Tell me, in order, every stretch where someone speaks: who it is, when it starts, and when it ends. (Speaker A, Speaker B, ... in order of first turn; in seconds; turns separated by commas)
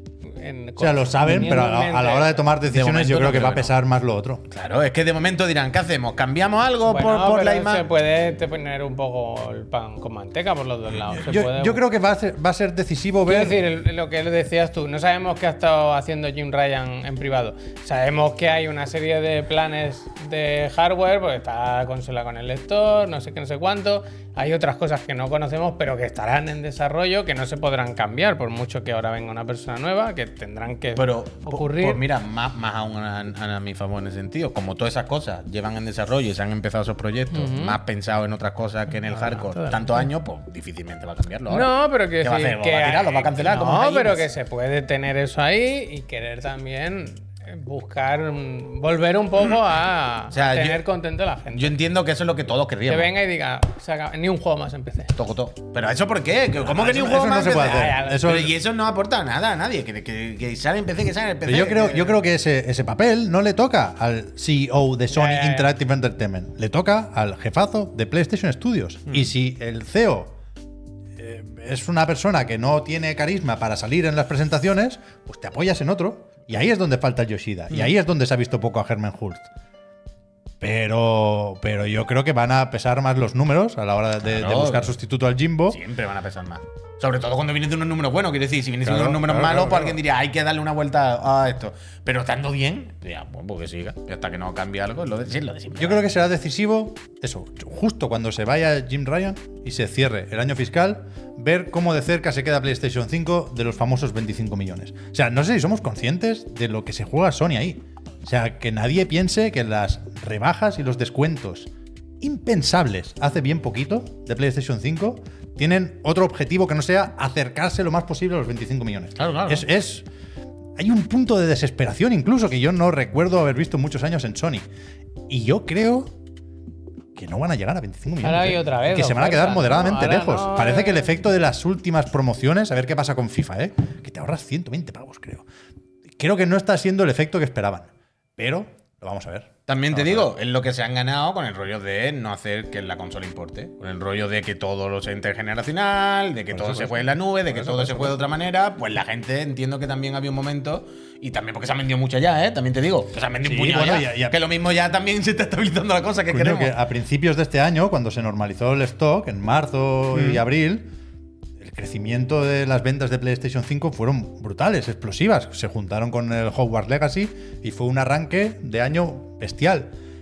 Speaker A: 0.2-2.4, Speaker B: 0.8-4.4, Speaker C: 2.7-3.7, Speaker C: 4.5-7.8, Speaker A: 6.9-11.8, Speaker B: 11.1-13.6, Speaker A: 13.3-32.0, Speaker C: 31.0-44.3, Speaker A: 37.3-37.8, Speaker A: 39.1-40.1, Speaker A: 41.5-51.8, Speaker C: 50.3-50.8, Speaker C: 51.5-53.1, Speaker A: 52.9-55.1, Speaker C: 55.1-62.2, Speaker B: 56.6-58.6, Speaker A: 57.5-58.3, Speaker B: 61.5-70.4, Speaker A: 65.1-65.7, Speaker B: 71.2-79.5, Speaker B: 80.6-85.8, Speaker C: 84.2-84.9, Speaker C: 85.7-96.0, Speaker B: 88.8-90.0, Speaker B: 95.8-111.7, Speaker B: 112.2-120.1, Speaker C: 119.2-119.7, Speaker B: 120.8-124.7, Speaker B: 125.3-126.1, Speaker B: 127.2-135.5, Speaker A: 128.2-131.1, Speaker B: 136.2-140.3, Speaker C: 139.7-156.8, Speaker B: 146.5-148.2, Speaker B: 153.4-154.4, Speaker B: 156.3-160.9, Speaker C: 160.1-160.4, Speaker B: 161.6-169.9